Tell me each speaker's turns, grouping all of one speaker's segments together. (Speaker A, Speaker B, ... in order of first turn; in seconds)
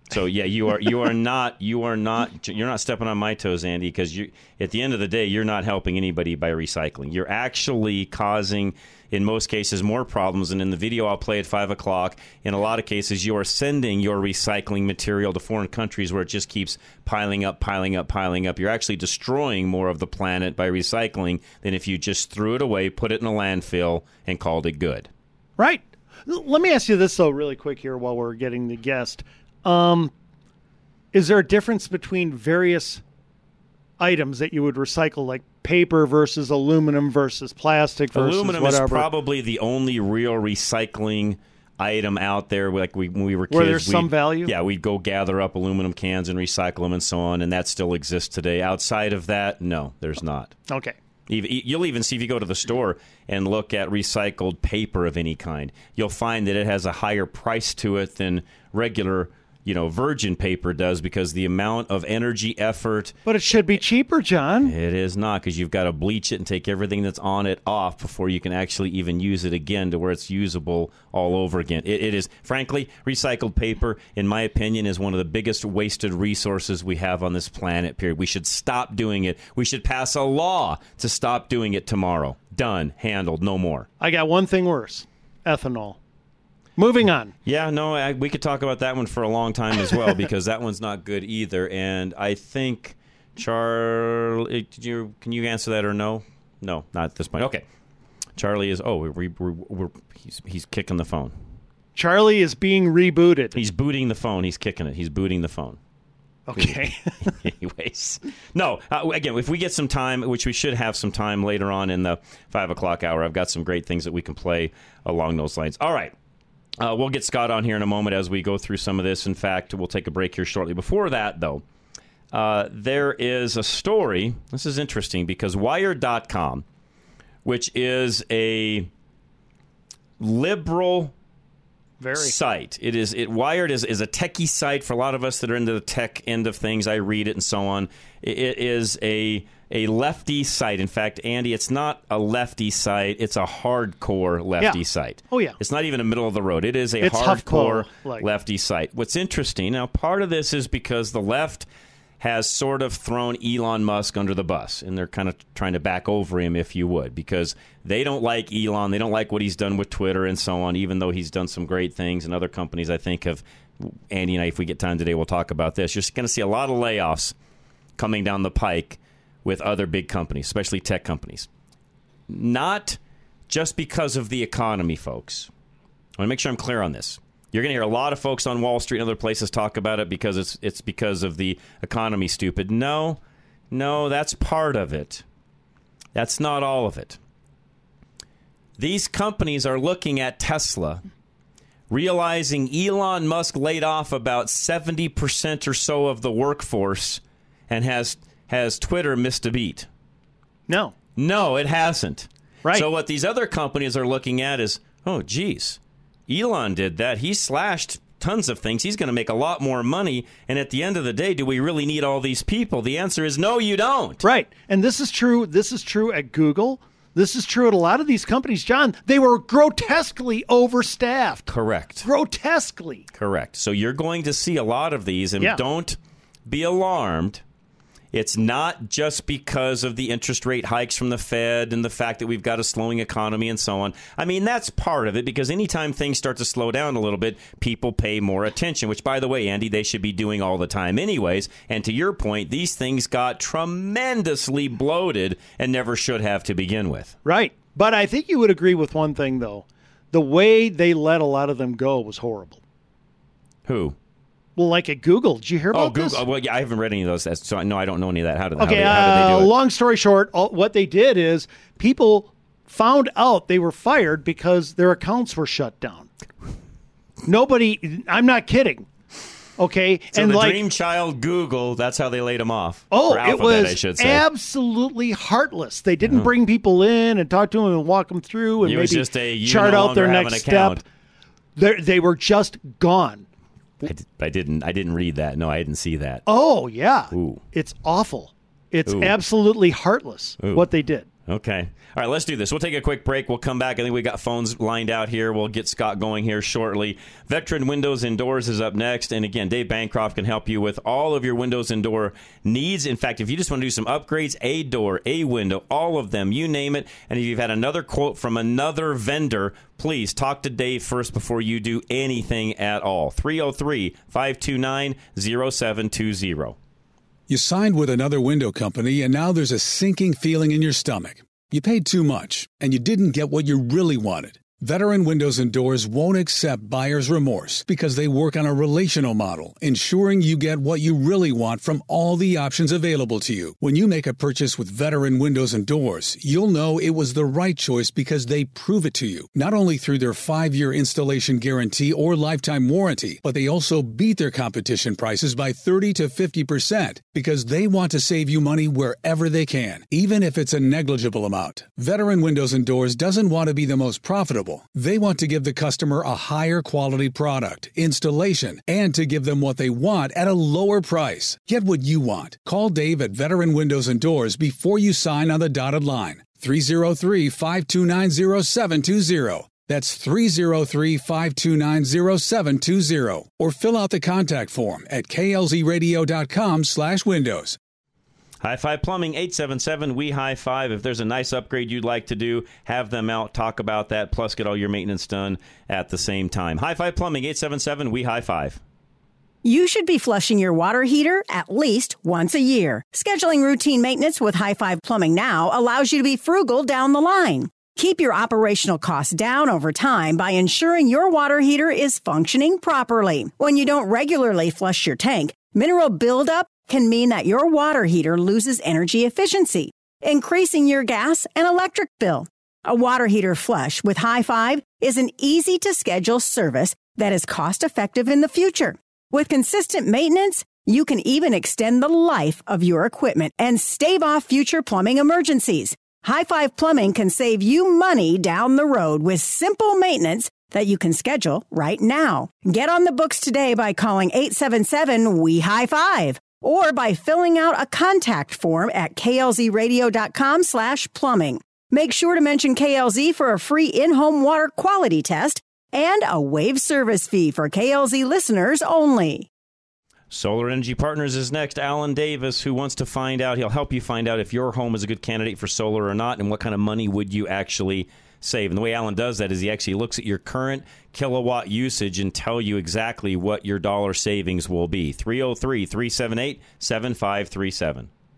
Speaker A: 0.1-25.1, 38.1-50.5, 51.3-63.1, 64.6-83.9, 87.5-97.6, 98.4-101.3, 103.5-105.8, 106.5-106.9, 107.4-116.1, 116.8-121.6, 122.3-126.7, 127.5-128.9, 130.2-131.1, 132.2-151.7, 152.2-167.3, 168.0-171.5, 172.3-175.5, 176.2-183.2, 183.7-185.2, 186.2-187.2, 188.8-191.0, 191.9-199.9, 201.2-214.2, 221.5-222.1, 223.1-227.4, 228.1-247.2, 253.7-254.0, 255.7-259.5, 270.1-274.2, 276.0-276.3, 278.6-280.8, 283.8-286.2, 287.1-287.4, 288.9-289.1, 290.4-290.7, 291.3-316.6, 378.4-388.6, 450.1-467.9
Speaker B: 25.6-30.1, 31.1-33.0, 34.0-39.1, 43.5-44.5, 50.7-51.0, 63.3-64.7, 84.0-86.0, 86.8-87.3, 102.0-103.6, 106.5-107.3, 132.0-132.4, 144.6-145.6, 147.0-148.3, 200.7-200.9, 214.2-221.5, 222.0-223.1, 247.2-252.6, 254.6-256.2, 258.6-266.1, 267.3-268.9, 269.6-270.6, 272.9-280.8, 281.6-283.3, 286.3-291.1
Speaker C: 317.3-377.6
Speaker D: 389.4-449.3